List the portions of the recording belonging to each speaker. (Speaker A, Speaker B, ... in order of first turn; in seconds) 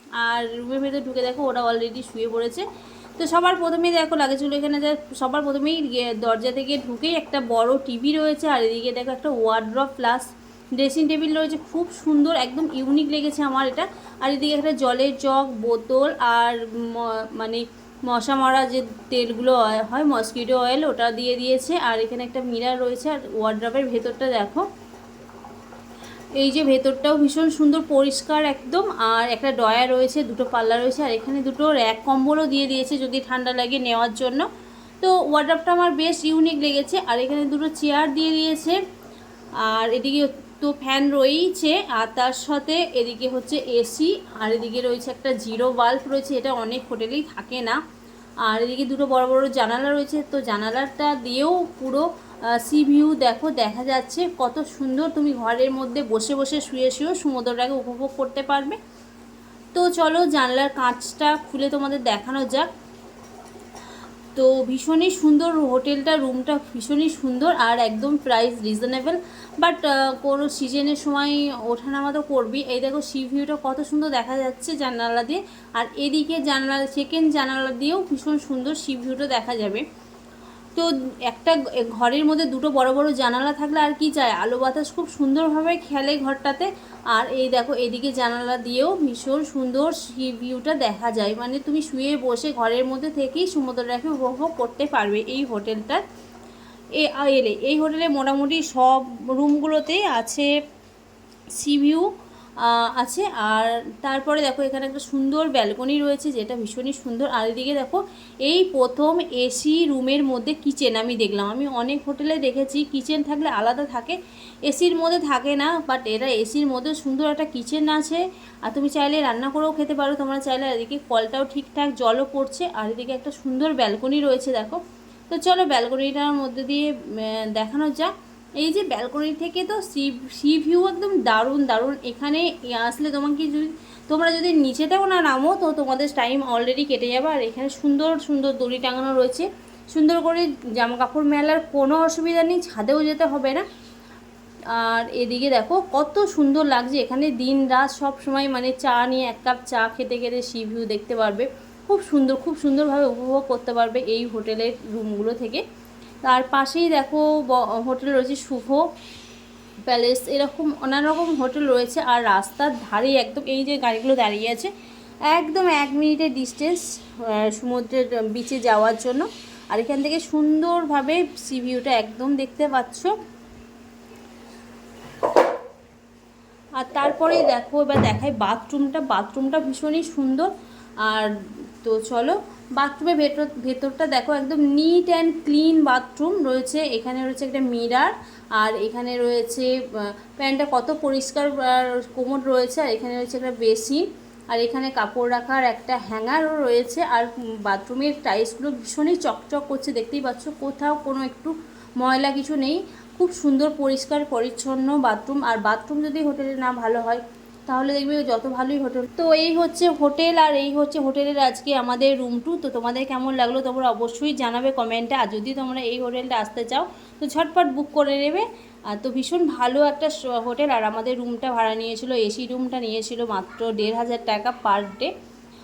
Speaker A: 0.2-2.6, 3.2-24.6, 26.4-34.5, 35.0-38.8, 39.6-47.8, 48.5-52.0, 52.5-58.8, 59.7-62.7, 64.3-79.8, 80.7-96.0, 97.0-100.5, 101.5-143.6, 144.7-155.6, 156.2-158.8, 159.9-164.7, 165.3-173.1, 176.8-180.5, 181.0-225.1